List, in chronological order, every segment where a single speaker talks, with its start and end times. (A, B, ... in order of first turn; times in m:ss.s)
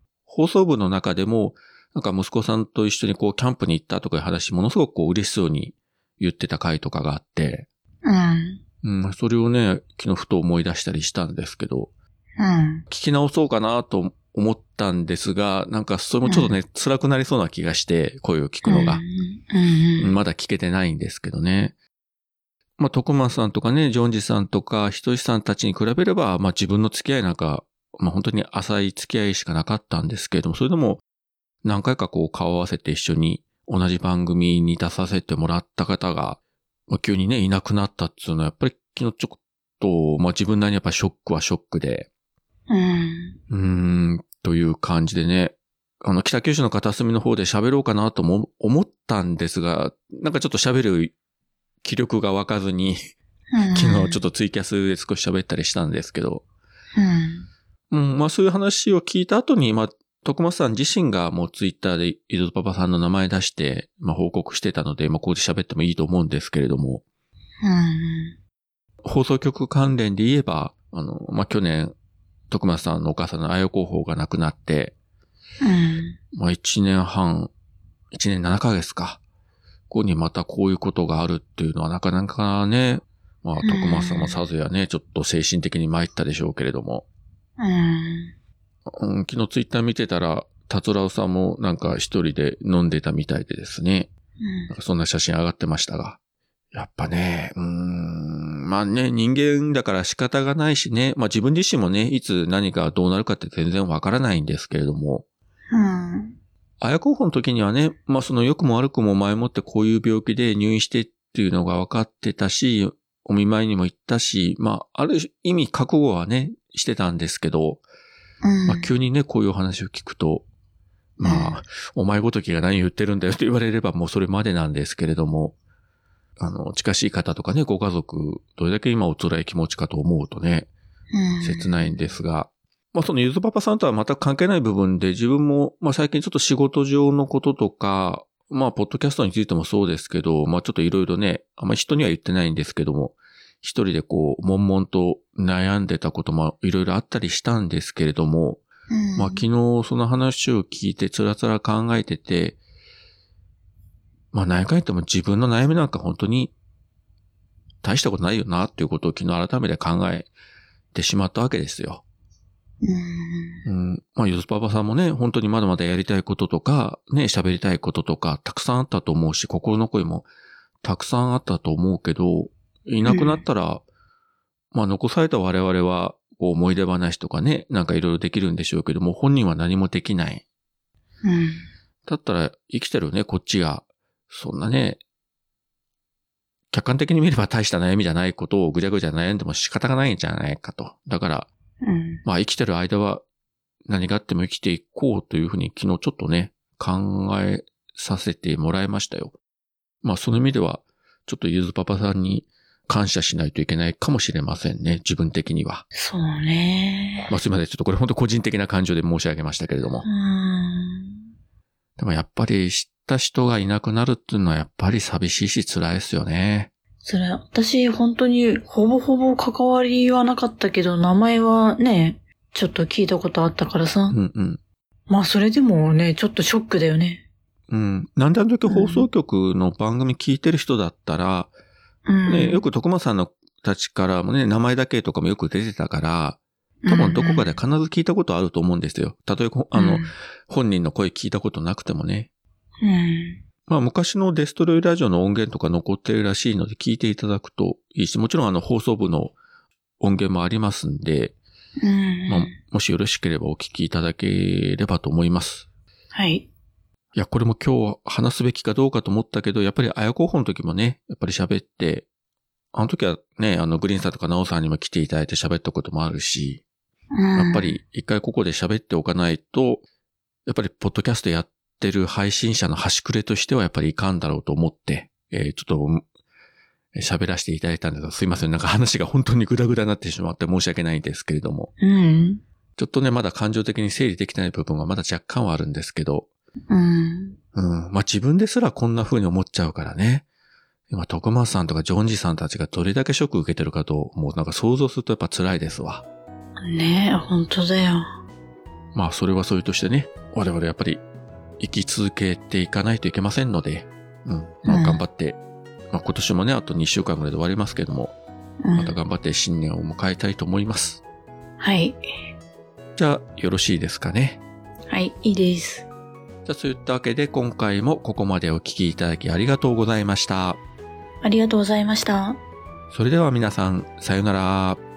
0:00.3-0:07.7 A
0:08.0-0:08.6 B
0:08.8-0:11.9 A
0:12.4-0:12.8 B
0:12.9-0:19.0 A
0:16.2-0:16.5 B
0:18.6-0:20.2 B
0:20.0-0:21.7 A
0:22.8-0:31.0 A
0:31.6-0:42.1 A
0:42.7-0:43.4 B
0:43.5-0:51.1 A
0:51.8-0:53.1 A
0:53.5-0:54.2 B
0:53.7-0:56.4 A
0:56.9-0:57.5 B
0:57.9-1:07.0 A
1:07.6-1:08.4 B
1:09.0-1:11.9 A
1:12.5-1:14.9 A
1:15.6-1:16.2 B
1:16.3-1:17.5 A
1:18.1-1:19.2 A
1:19.9-1:27.0 A
1:23.6-1:24.4 B
1:27.6-1:28.3 B
1:28.9-1:34.1 A
1:34.4-1:34.7 B
1:34.7-1:36.2 A
1:36.7-1:45.2 A
1:45.7-1:46.4 B
1:46.8-1:57.8 A
1:58.4-1:58.9 B
1:58.7-2:00.4 A
2:01.2-2:05.5 A
2:01.2-2:01.6 B
2:06.4-2:10.7 A
2:11.1-2:11.9 B
2:11.4-2:28.6 A
2:28.9-2:29.4 B
2:29.2-2:32.6 A
2:34.3-2:36.5 A
2:37.8-2:40.3 A
2:40.9-2:42.0 A
2:42.8-2:43.6 B
2:43.6-2:50.3 A
2:50.8-2:53.8 A
2:53.0-2:53.4 B
2:54.7-3:00.4 A
3:01.2-3:01.6 B
3:02.0-3:05.0 A
3:06.7-3:11.5 A
3:11.8-3:12.2 B
3:12.2-3:13.2 A
3:13.8-3:19.4 A
3:20.0-3:25.8 A
3:25.9-3:27.3 B
3:27.3-3:30.0 A
3:30.0-3:31.1 B
3:32.0-3:36.7 A
3:37.0-3:44.2 B
3:44.1-3:44.6 A
3:45.1-3:47.2 B
3:47.7-3:51.5 A
3:48.7-3:49.1 B
3:52.0-3:52.6 B
3:52.3-4:02.3 A
3:56.8-3:57.5 B
3:59.7-4:00.1 B
4:02.8-4:03.4 B
4:03.7-4:09.3 A
4:10.0-4:11.4 A
4:11.8-4:12.5 B
4:12.3-4:15.6 A
4:16.1-4:16.5 B
4:17.1-4:22.1 A
4:22.7-4:26.6 A
4:27.1-4:27.8 B
4:27.3-4:29.8 A
4:30.4-4:36.0 A
4:36.9-4:41.7 A
4:41.8-4:42.4 B
4:42.8-4:46.3 A
4:46.7-4:47.4 B
4:47.5-4:50.2 A
4:50.9-4:56.0 A
4:56.6-4:58.1 B
4:58.9-5:01.0 A
5:01.6-5:05.4 A
5:04.6-5:05.0 B
5:05.9-5:08.2 A
5:08.6-5:09.0 B
5:08.7-5:11.0 A
5:11.6-5:12.0 B
5:13.0-5:14.4 A
5:14.9-5:15.9 B
5:16.4-5:20.6 A
5:21.2-5:22.4 B
5:22.9-5:24.8 A